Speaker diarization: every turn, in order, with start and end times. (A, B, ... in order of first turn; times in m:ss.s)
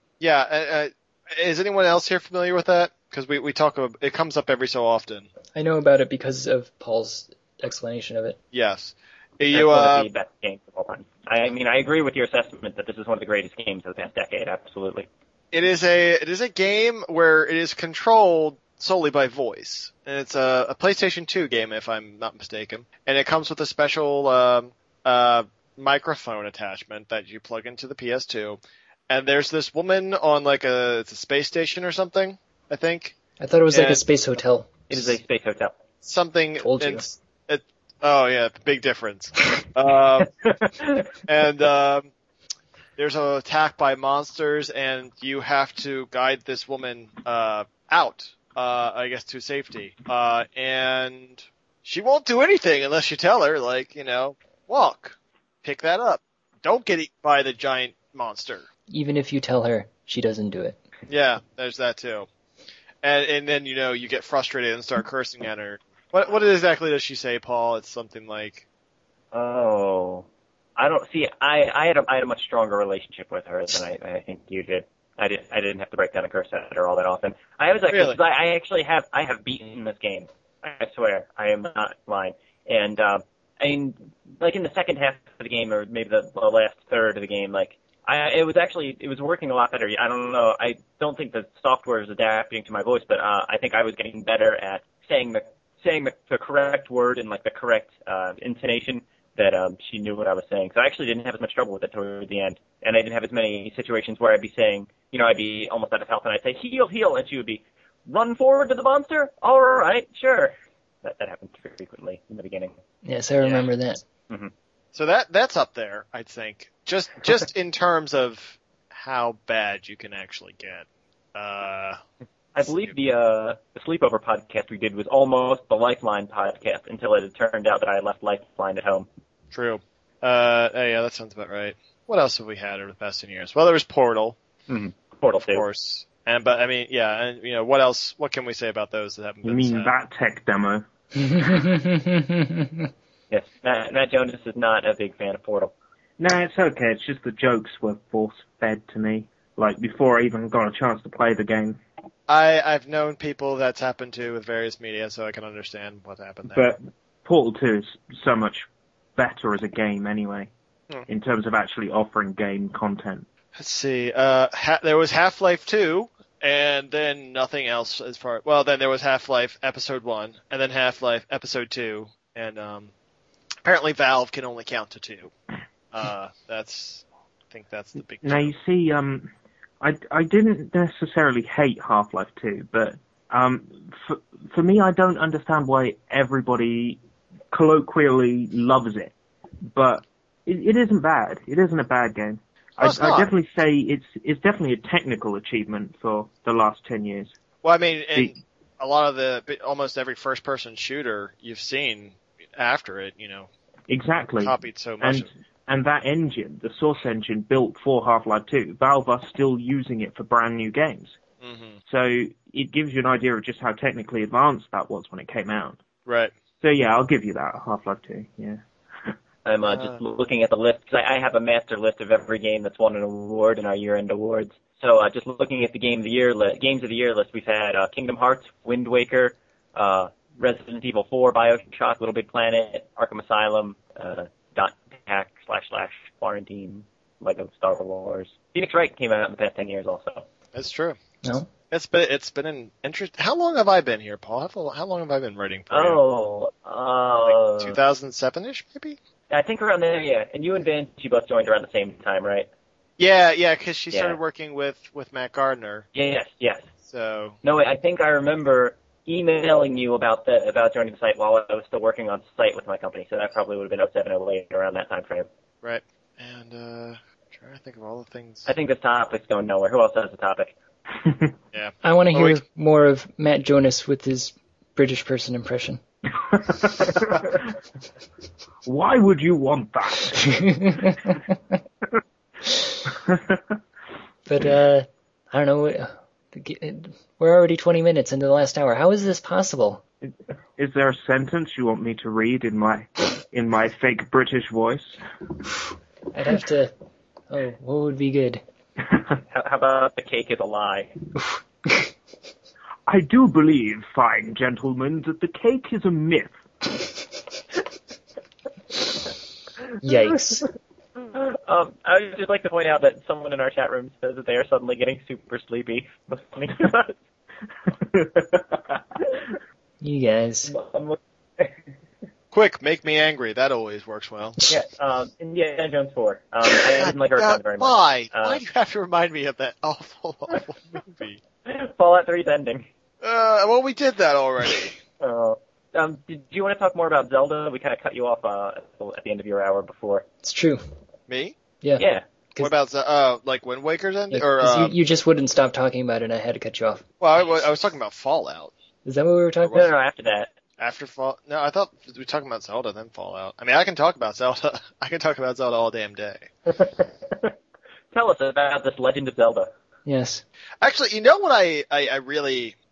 0:00.2-0:05.3 A
0:05.5-0:08.4 B
0:08.5-0:10.1 A
0:09.5-0:15.1 C
0:15.5-0:33.2 A
0:33.4-0:34.8 B
0:33.7-0:34.0 A
0:34.9-0:35.7 C
0:36.0-0:40.3 A
0:36.6-0:37.0 B
0:40.2-0:41.1 C
0:41.2-0:42.1 A
0:43.0-0:58.7 A
0:58.9-1:00.8 B
1:01.1-1:02.3 A
1:03.0-1:08.6 A
1:09.3-1:10.2 C
1:10.8-1:52.7 C
1:17.9-1:18.2 A
1:53.0-1:54.0 B
1:54.9-2:02.0 A
2:02.5-2:09.1 C
2:02.6-2:02.9 A
2:09.5-2:14.4 A
2:14.7-2:15.6 C
2:15.4-2:19.9 A
2:19.4-2:20.8 D
2:21.2-2:22.9 B
2:23.3-2:25.7 C
2:26.2-2:31.8 D
2:32.3-2:36.6 A
2:36.5-2:40.5 D
2:41.1-2:43.2 D
2:43.5-2:52.9 A
2:53.6-2:55.3 A
2:55.9-2:58.5 A
2:58.2-3:09.1 D
3:09.7-3:17.3 D
3:12.8-3:13.3 A
3:17.6-3:23.5 A
3:23.9-3:31.2 D
3:24.4-3:25.3 A
3:31.4-3:31.8 A
3:31.9-3:35.8 D
3:36.0-3:36.3 A
3:36.6-3:39.1 D
3:39.4-4:00.2 C
3:39.6-3:40.0 A
4:00.5-4:01.0 A
4:01.7-4:06.0 A
4:05.7-4:07.8 C
4:07.2-4:09.0 A
4:09.3-4:12.5 C
4:13.0-4:15.8 A
4:13.9-4:14.2 C
4:15.9-4:16.7 C
4:16.8-4:17.4 A
4:17.4-4:25.3 C
4:25.6-4:28.5 A
4:28.4-4:30.5 C
4:31.0-4:31.3 D
4:31.5-4:32.4 A
4:31.8-4:35.8 B
4:36.3-4:37.4 D
4:38.6-4:40.8 D
4:40.4-4:41.2 B
4:43.0-4:43.4 D
4:44.2-4:49.8 B
4:50.0-4:55.0 D
4:56.1-4:56.7 B
4:57.3-4:58.4 B
4:59.3-5:01.0 C
5:02.9-5:06.7 D
5:09.8-5:10.4 B
5:11.0-5:17.0 C
5:19.8-5:20.5 B
5:20.5-5:21.6 C
5:22.3-5:24.4 A
5:24.5-5:28.4 C
5:26.5-5:31.2 A
5:31.4-5:32.7 C
5:33.0-5:34.8 A
5:35.0-5:40.0 C
5:40.2-5:40.6 B
5:41.1-5:41.3 A
5:41.8-5:42.0 C
5:42.4-5:44.8 A
5:44.1-5:46.8 B
5:47.0-5:48.5 A
5:48.8-5:49.7 B
5:49.5-5:50.3 C
5:50.6-5:56.3 A
5:56.5-5:57.3 C
5:57.9-5:59.5 C
5:59.8-6:00.2 B
6:00.6-6:02.5 A